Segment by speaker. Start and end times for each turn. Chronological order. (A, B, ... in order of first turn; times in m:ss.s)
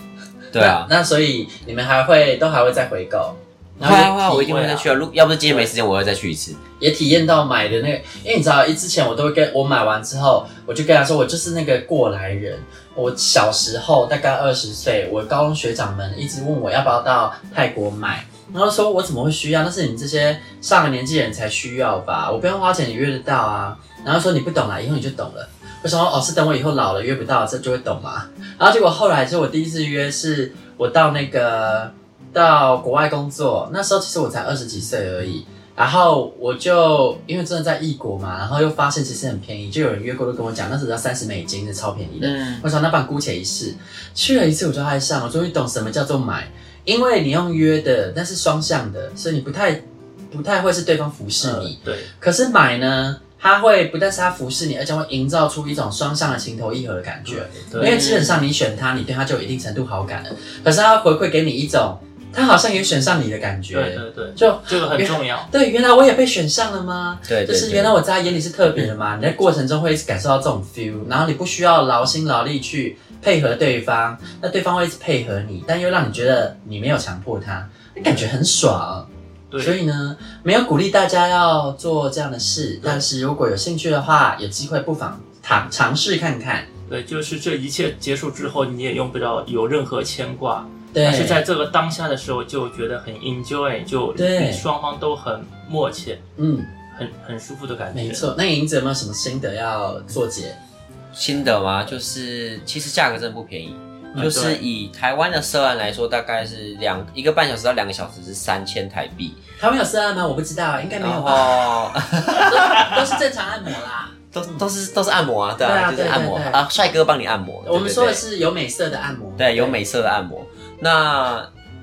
0:00.5-0:00.9 A
0:00.6-0:04.6 B
0:03.8-0:06.6 A
0:04.4-0:04.9 C
0:06.8-1:19.1 B
0:42.2-0:42.6 A
0:51.4-0:52.1 C
0:57.3-0:58.0 C
0:57.8-0:58.4 A
1:03.7-1:05.5 C
1:07.3-1:08.0 A
1:19.5-1:19.8 C
1:19.6-1:26.7 B
1:26.9-1:36.2 C
1:30.9-1:31.4 B
1:34.2-1:34.6 B
1:36.4-1:36.7 B
1:36.9-1:38.3 C
1:37.9-1:40.6 B
1:41.1-1:49.4 A
1:44.1-1:44.5 B
1:44.2-1:44.6 C
1:49.6-1:51.7 B
1:51.0-1:53.2 A
1:52.2-1:54.6 B
1:54.3-1:58.2 A
1:55.6-1:56.6 B
1:57.6-1:59.8 B
1:59.4-2:01.5 A